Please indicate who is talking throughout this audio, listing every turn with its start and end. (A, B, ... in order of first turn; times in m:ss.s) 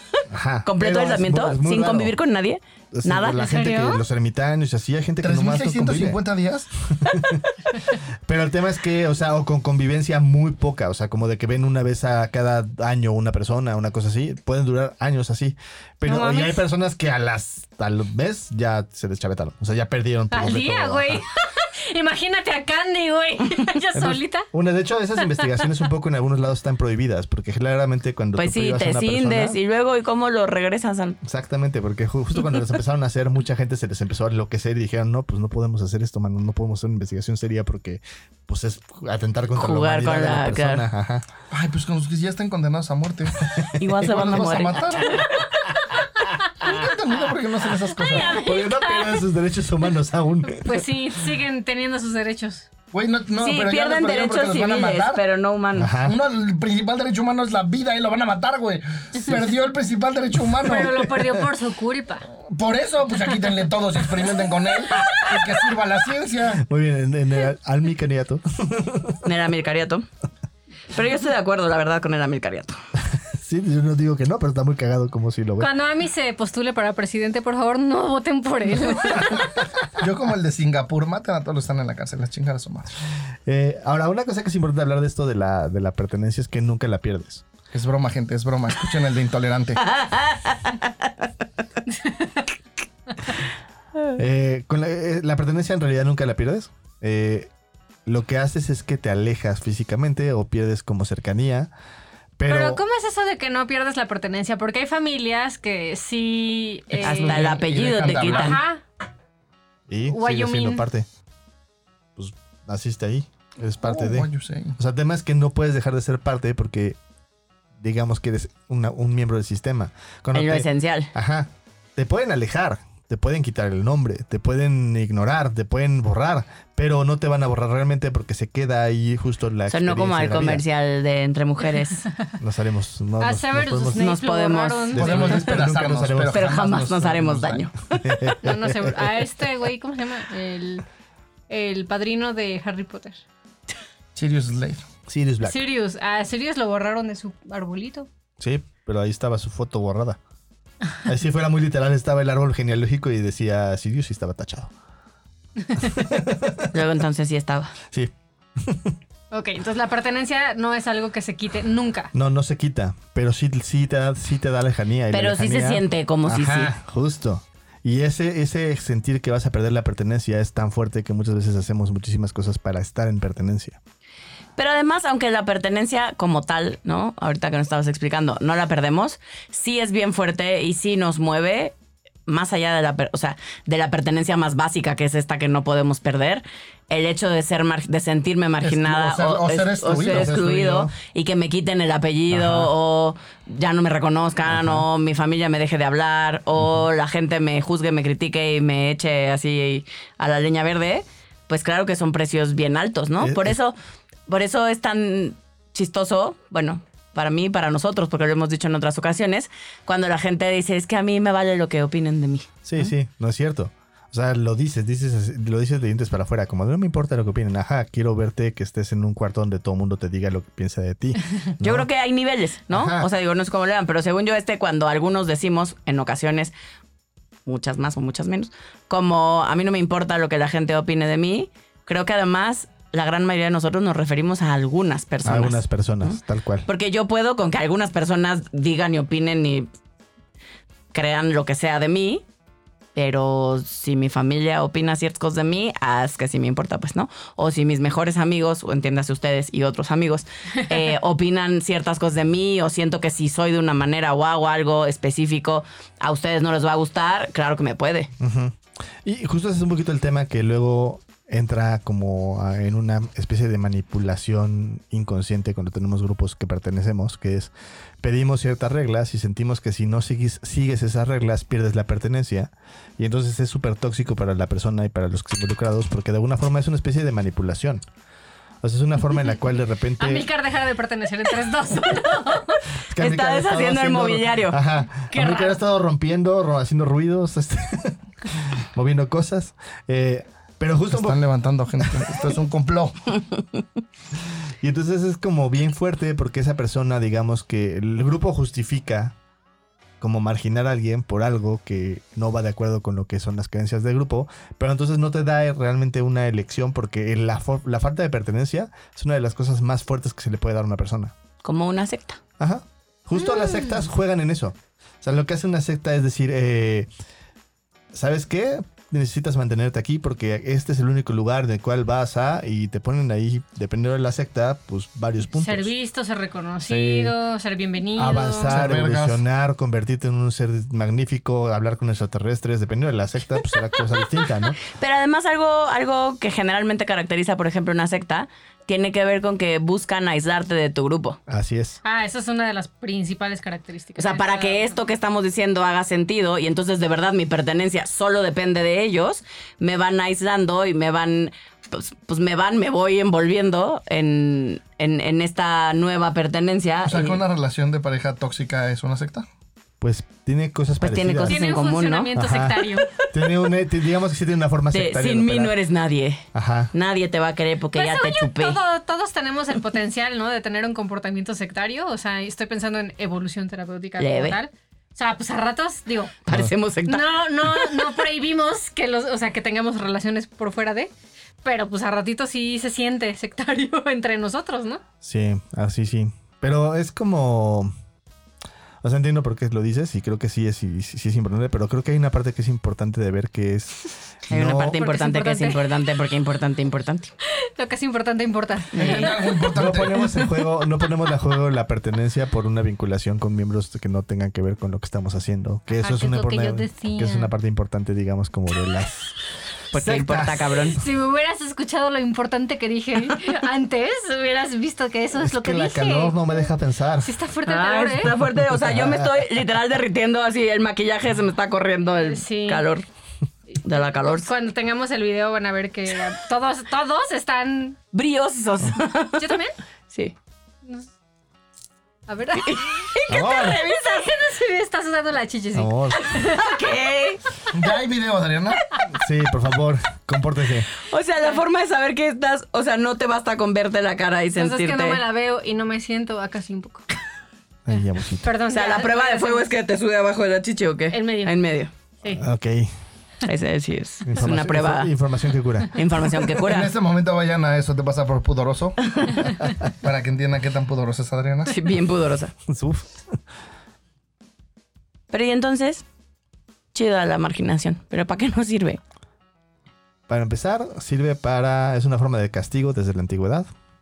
0:00.3-0:02.2 A
0:00.6-0:03.5 B
0:02.9-0:06.2 A
0:03.4-0:04.0 C
0:05.2-0:06.7 D
0:06.8-0:21.2 A
0:16.0-0:16.6 C
0:20.3-0:24.5 C
0:23.9-0:29.6 A
0:28.4-0:31.2 B
0:31.2-0:41.2 A
0:39.5-0:40.8 B
0:41.5-0:45.3 D
0:43.5-0:44.5 A
0:43.8-0:45.4 B
0:46.6-0:48.3 D
0:48.0-0:49.2 C
0:48.2-0:50.8 A
0:50.5-0:52.7 C
0:52.9-0:55.2 D
0:53.4-0:55.9 B
0:55.8-0:56.2 A
0:56.0-1:00.9 D
1:00.6-1:02.3 C
1:02.3-1:06.6 D
1:06.6-1:09.2 A
1:09.2-1:10.1 B
1:10.9-1:12.8 B
1:13.2-1:15.7 A
1:15.6-1:19.5 C
1:19.2-1:19.4 A
1:20.0-1:23.0 D
1:23.4-1:27.4 A
1:27.7-1:29.8 D
1:29.8-1:31.1 B
1:31.9-1:32.4 C
1:34.1-1:37.5 A
1:38.0-1:41.7 A
1:42.4-1:42.8 A
1:42.5-1:47.5 C
1:46.9-1:48.6 D
1:47.0-1:48.6 B
1:48.2-1:48.8 C
1:49.9-1:51.1 A
1:50.1-1:50.8 C
1:52.2-1:57.0 A
1:53.8-1:54.8 D
1:57.8-2:10.6 A
2:00.3-2:01.1 B
2:09.7-2:12.0 B
2:12.4-2:14.1 A
2:13.2-2:15.0 C
2:14.0-2:15.5 B
2:14.9-2:16.9 A
2:15.0-2:17.6 D
2:16.3-2:18.4 B
2:17.9-2:19.2 A
2:18.4-2:20.8 C
2:21.5-2:23.2 C
2:24.2-2:24.8 D
2:25.1-2:25.6 A
2:25.4-2:28.1 C
2:28.4-2:30.2 A
2:31.0-2:34.7 A
2:35.8-2:36.7 A
2:36.7-2:37.7 B
2:37.9-2:39.0 A
2:39.3-2:42.1 C
2:42.1-2:53.8 A
2:45.1-2:46.7 B
2:54.6-3:01.7 B
3:02.3-3:23.8 B
3:08.6-3:10.4 D
3:10.0-3:10.9 A
3:12.3-3:12.7 A
3:14.5-3:14.8 A
3:23.2-3:23.6 A
3:24.3-3:32.5 B
3:32.6-3:41.9 A
3:41.6-3:46.5 B
3:42.7-3:43.1 A
3:47.4-3:59.7 B
3:55.2-3:56.7 A
4:00.9-4:02.2 B
4:02.9-4:18.1 B
4:18.2-4:37.8 A
4:38.6-4:40.3 A
4:40.0-4:42.6 C
4:42.9-4:51.2 A
4:43.0-4:44.6 B
4:45.1-4:45.6 C
4:50.9-4:53.2 D
4:51.8-4:52.3 A
4:54.3-4:59.2 A
5:00.0-5:11.1 A
5:11.4-5:12.2 B
5:12.4-5:16.9 A
5:17.9-5:25.7 A
5:25.4-5:28.6 C
5:26.6-5:27.1 A
5:27.9-5:34.6 A
5:28.4-5:29.2 D
5:34.7-5:41.2 B
5:41.3-5:41.8 A
5:41.8-5:44.7 C
5:44.0-5:57.2 B
5:56.8-5:59.2 D
5:59.8-6:01.4 A
6:00.8-6:02.1 B
6:01.3-6:02.9 C
6:02.1-6:05.5 A
6:04.7-6:08.6 B
6:06.3-6:06.7 A
6:07.7-6:16.2 C
6:14.0-6:14.4 B
6:16.2-6:17.8 B
6:16.8-6:20.9 C
6:21.4-6:24.8 C
6:25.0-6:27.7 A
6:28.8-6:34.8 A
6:34.3-6:37.1 B
6:34.8-6:35.7 C
6:37.4-6:39.5 C
6:38.8-6:40.0 D
6:38.8-6:49.2 A
6:40.1-6:40.4 C
6:45.8-6:47.3 C
6:49.7-6:50.8 B
6:49.7-6:50.8 A
6:50.8-6:56.4 C
6:55.2-6:57.1 A
6:57.0-6:58.2 C
6:57.4-7:02.8 B
6:58.4-6:59.1 A
7:02.0-7:02.6 C
7:03.5-7:07.8 C
7:03.6-7:04.3 B
7:07.9-7:09.4 B
7:09.2-7:09.5 C
7:09.9-7:10.1 B
7:12.1-7:16.6 C
7:12.4-7:13.6 B
7:13.1-7:13.6 A
7:15.5-7:16.0 A
7:16.0-7:17.2 B
7:17.5-7:18.6 D
7:18.9-7:20.7 A
7:20.8-7:25.0 B
7:24.4-7:26.8 C
7:27.6-7:28.3 A
7:28.2-7:29.5 C
7:28.5-7:31.7 B
7:30.9-7:31.4 C
7:32.1-7:32.7 A
7:33.2-7:34.9 B
7:34.0-7:35.8 A
7:35.7-7:36.7 B
7:36.4-7:41.6 D
7:41.5-7:42.3 B
7:42.5-7:43.2 A
7:45.1-7:45.8 B
7:46.7-7:48.8 B
7:50.1-7:53.5 A